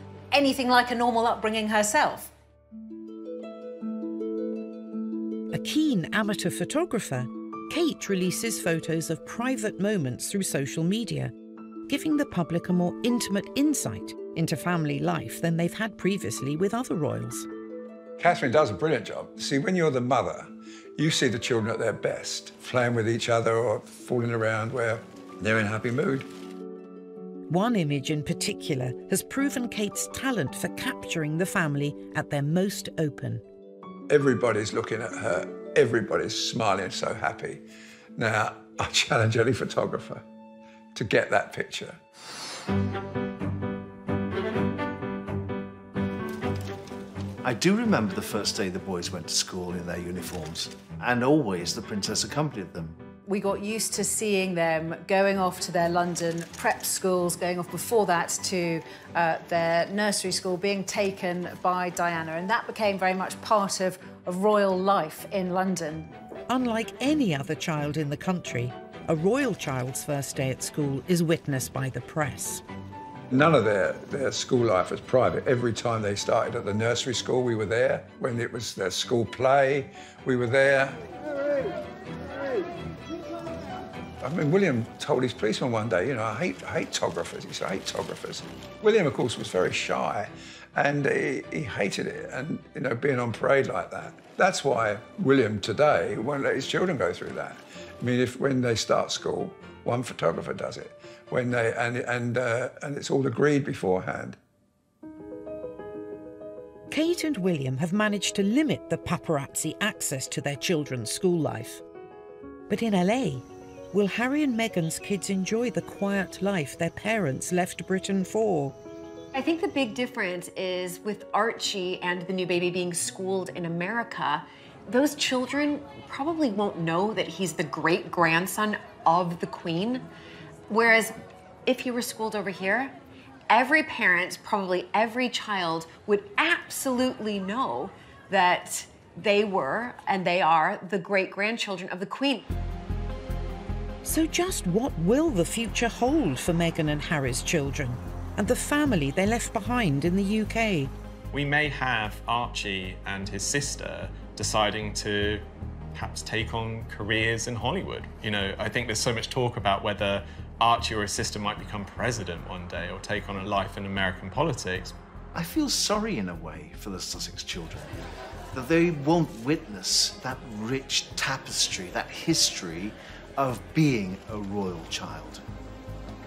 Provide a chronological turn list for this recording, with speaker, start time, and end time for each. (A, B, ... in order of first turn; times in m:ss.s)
0:00.3-0:02.3 A
0:05.5-0:11.3 B
0:11.9-0:17.5 B
0:18.2-0:26.3 C
0:27.5-0:33.4 B
0:34.1-0:37.6 C
0:38.2-0:40.2 C
0:40.9-0:42.0 C
0:47.4-0:53.0 D
0:53.2-1:06.1 A
1:06.5-1:12.6 B
1:13.3-1:21.0 C
1:24.2-1:44.4 C
1:46.9-1:51.8 B
1:52.7-1:58.7 B
1:59.3-2:10.0 E
2:10.7-2:12.9 E
2:13.5-2:22.5 E
2:24.0-2:30.9 B
2:31.3-2:44.9 F
2:45.3-2:47.9 D
2:48.5-2:55.4 D